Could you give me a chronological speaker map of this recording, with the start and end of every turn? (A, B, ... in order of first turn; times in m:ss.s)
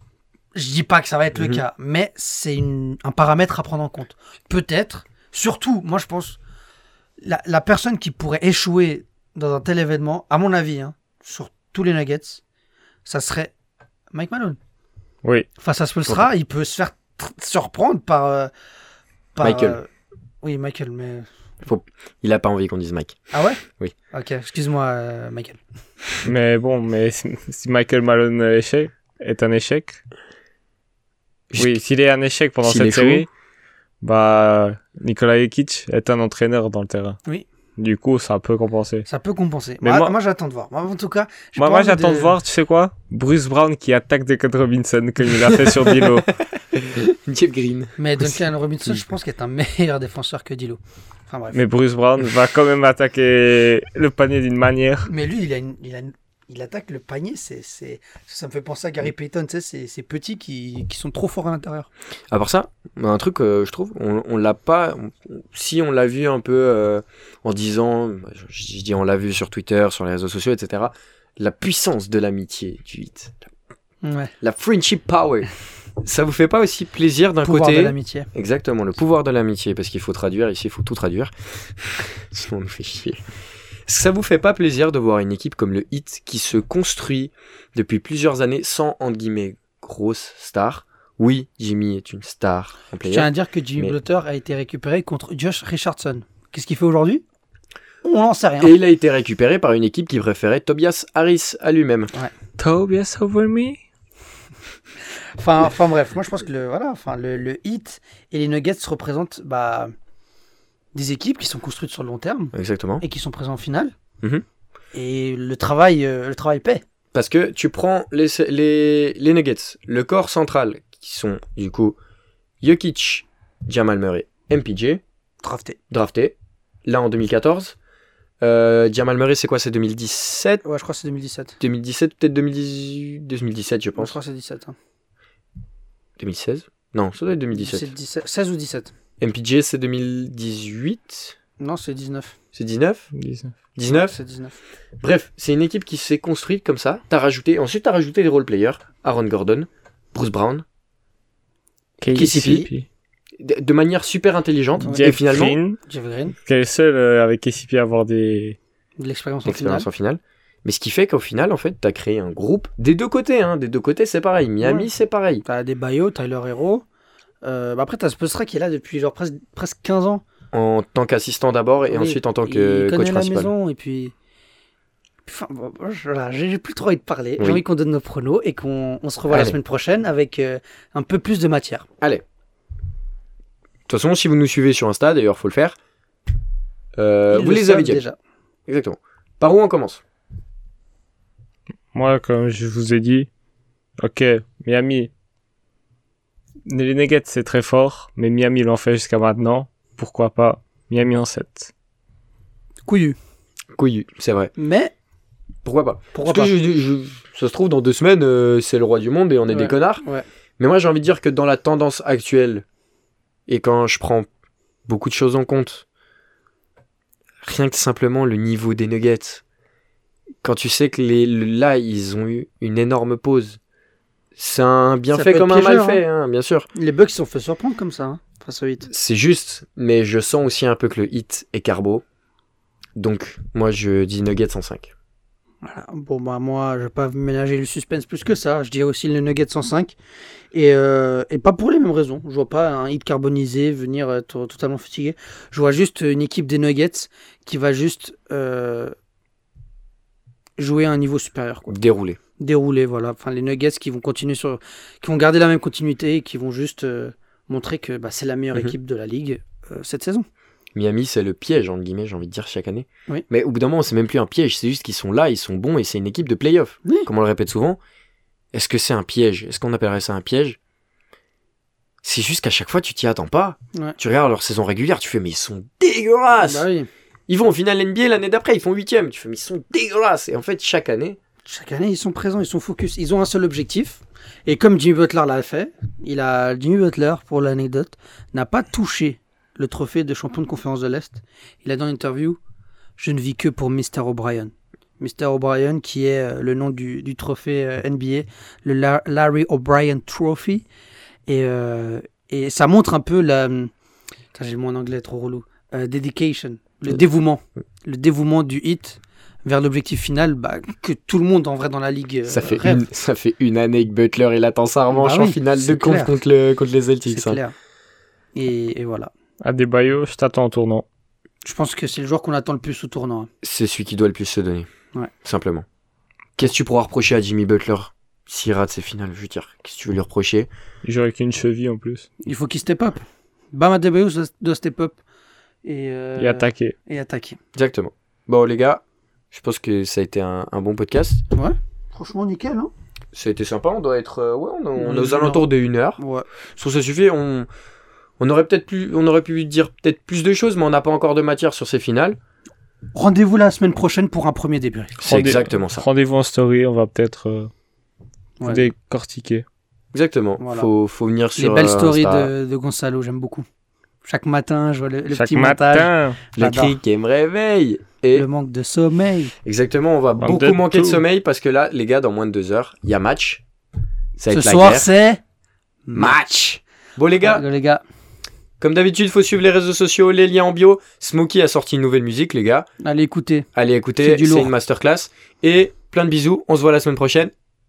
0:00.5-0:06.4 A
0:01.4-0:01.6 B
0:07.2-0:12.4 A
0:13.1-0:13.5 A
0:14.1-0:14.6 A
0:15.6-0:18.5 A
0:19.4-0:19.9 A
0:19.4-0:19.8 B
0:20.4-0:21.3 A
0:21.6-0:23.2 B
0:23.3-0:25.6 A
0:26.2-0:30.0 C
0:31.5-0:31.8 B
0:31.6-0:33.3 C
0:32.6-0:33.3 B
0:34.0-0:37.2 C
0:37.8-0:39.1 C
0:39.1-0:42.4 A
0:39.8-0:40.1 C
0:41.6-0:46.3 C
0:45.4-0:48.0 B
0:48.0-0:51.6 A
0:51.5-0:55.1 C
0:55.1-1:01.9 A
1:02.3-1:13.5 B
1:14.0-1:14.3 A
1:14.4-1:15.5 B
1:16.0-1:23.2 B
1:17.4-1:18.3 A
1:23.9-1:34.0 B
1:33.0-1:37.2 A
1:38.0-1:38.8 A
1:38.6-1:42.1 B
1:42.6-1:43.8 C
1:45.4-1:49.9 A
1:50.9-1:53.9 A
1:52.5-1:53.0 B
1:54.9-1:56.8 A
1:57.1-2:02.0 B
2:02.6-2:05.0 B
2:05.4-2:05.8 A
2:05.9-2:06.4 B
2:06.9-2:07.8 B
2:08.4-2:10.6 B
2:10.6-2:11.6 A
2:11.6-2:14.2 B
2:14.0-2:14.8 A
2:16.2-2:17.9 B
2:17.5-2:18.9 A
2:19.2-2:21.4 B
2:21.6-2:22.4 A
2:22.5-2:23.1 B
2:23.1-2:23.6 C
2:23.8-2:24.2 B
2:23.9-2:24.6 A
2:25.0-2:30.6 B
2:32.0-2:32.8 C
2:32.1-2:32.7 B
2:32.1-2:32.7 A
2:33.4-2:35.6 B
2:34.8-2:35.8 C
2:35.9-2:36.4 A
2:36.5-2:38.6 C
2:39.0-2:39.9 A
2:39.4-2:45.4 B
2:44.6-2:44.9 A
2:45.5-2:46.8 A
2:47.4-2:50.2 A
2:50.5-2:53.5 B
2:51.9-2:54.1 A
2:55.3-3:01.9 A
2:59.3-2:59.6 B
3:03.9-3:05.8 B
3:07.0-3:08.0 B
3:07.3-3:08.2 A
3:08.7-3:10.0 B
3:11.9-3:13.3 C
3:14.0-3:15.1 C
3:16.7-3:21.7 C
3:22.9-3:23.2 A
3:23.7-3:24.5 B
3:24.6-3:24.9 A
3:25.6-3:30.0 B
3:26.1-3:26.5 A
3:29.5-3:30.2 A
3:30.6-3:32.6 B
3:33.5-3:34.3 B
3:34.9-3:35.8 B
3:37.4-3:39.4 B
3:40.4-3:43.6 B
3:44.4-3:46.7 B
3:45.1-3:46.0 A
3:46.7-3:48.9 A
3:48.9-3:52.0 B
3:53.0-3:54.9 B
3:55.6-4:00.0 A
4:00.5-4:09.0 A
4:10.6-4:11.8 A
4:11.7-4:12.2 B
4:12.4-4:20.3 A
4:20.8-4:27.8 B
4:28.5-4:30.6 B
4:32.0-4:36.7 B
4:36.4-4:36.9 A
4:37.3-4:41.2 B
4:41.5-4:52.4 A
4:53.0-5:00.7 A
5:01.3-5:03.7 A
5:04.3-5:12.9 A
5:12.3-5:17.4 B
5:14.9-5:16.2 A
5:17.1-5:17.6 A
5:18.4-5:19.1 A
5:19.4-5:20.8 C
5:21.4-5:23.3 A
5:23.4-5:24.7 B
5:25.2-5:25.6 B
5:26.4-5:30.5 B
5:30.8-5:32.1 C
5:32.2-5:35.0 A
5:35.6-5:37.4 A
5:36.2-5:36.7 C
5:37.6-5:41.2 B
5:41.3-5:42.7 A
5:43.1-5:46.0 B
5:44.8-5:46.3 A
5:46.6-5:47.5 B
5:48.2-5:52.2 B
5:52.9-5:55.1 A
5:55.0-5:55.9 B
5:55.0-5:57.5 C
5:58.4-5:58.7 A
5:58.4-5:59.4 C
5:59.9-6:02.3 B
6:00.4-6:00.7 A
6:01.4-6:03.5 A
6:04.0-6:06.8 A
6:05.1-6:06.2 C
6:06.4-6:08.3 B
6:08.1-6:09.3 A
6:09.4-6:13.4 B
6:10.2-6:11.0 C
6:14.2-6:14.9 B
6:14.3-6:15.2 A
6:15.9-6:16.2 A
6:15.9-6:17.4 B
6:17.2-6:17.8 A
6:18.6-6:22.7 B
6:22.8-6:23.5 A
6:23.5-6:27.3 B
6:24.0-6:24.5 A